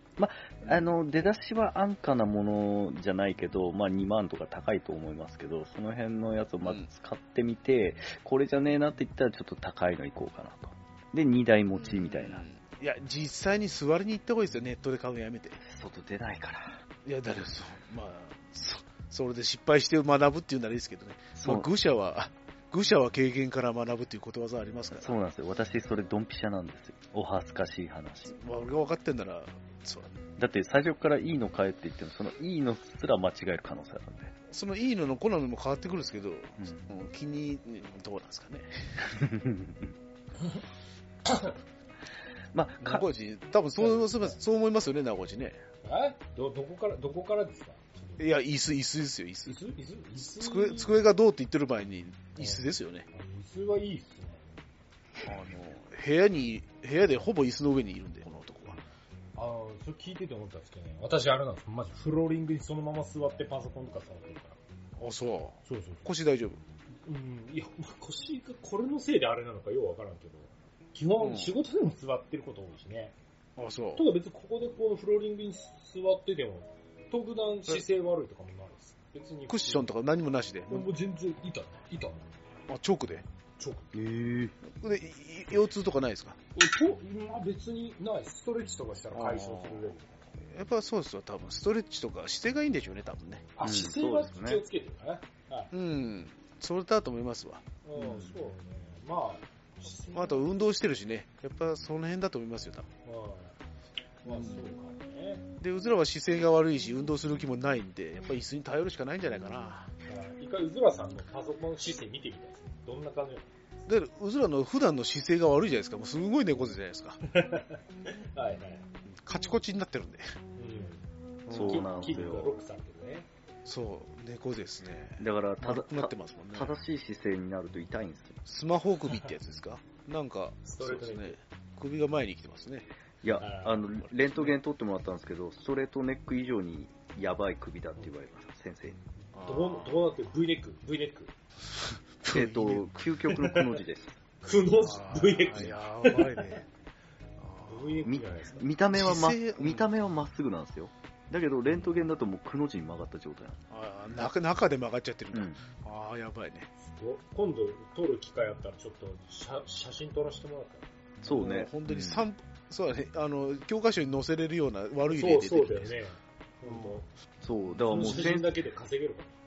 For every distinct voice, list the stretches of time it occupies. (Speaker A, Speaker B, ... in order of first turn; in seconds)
Speaker A: 0.2-12.4, 15.6-16.8, 21.4-21.7, 25.0-28.3, 30.4-34.3, 39.1-39.9, 42.5-43.0, 83.9-84.6, 93.6-94.6, 121.5-122.6, 125.2-128.4, 133.2-139.0, 142.3-144.2, 148.0-153.6, 155.3-155.6, 161.2-162.3, 167.4-168.6
Speaker B: 0.6-0.9, 11.8-15.6, 17.1-25.1, 28.3-30.2, 34.5-39.2, 42.8-45.6, 48.2-49.5, 50.4-53.1, 55.2-58.8, 65.0-66.6, 71.2-71.5, 73.6-74.0, 79.5-80.9, 82.7-83.2, 84.8-86.4, 89.1-93.5, 95.7-98.4, 100.1-102.9, 104.3-104.7, 105.6-109.9, 113.9-117.2, 119.2-120.3, 121.5-122.1, 123.7-126.8, 128.5-132.9, 139.3-140.0, 142.2-142.9, 144.8-146.7, 147.4-148.0, 148.9-149.9, 151.7-152.0, 153.7-156.7, 161.2-166.0, 166.6-167.0, 167.6-168.3
Speaker C: 41.2-41.5, 43.8-44.4, 45.8-48.3, 49.5-51.0, 52.4-54.6, 59.4-64.6, 65.7-66.0, 67.0-73.1, 74.0-79.9, 80.7-82.3, 83.6-83.9, 86.5-90.1, 93.6-95.7, 97.8-100.5, 103.0-103.6, 104.2-105.5, 110.1-113.5, 117.3-118.8, 120.6-123.3, 130.7-131.4, 133.4-133.8, 139.3-141.3, 143.3-143.8, 144.4-146.6, 147.7-148.7, 156.8-160.9, 165.1-167.1, 167.9-169.3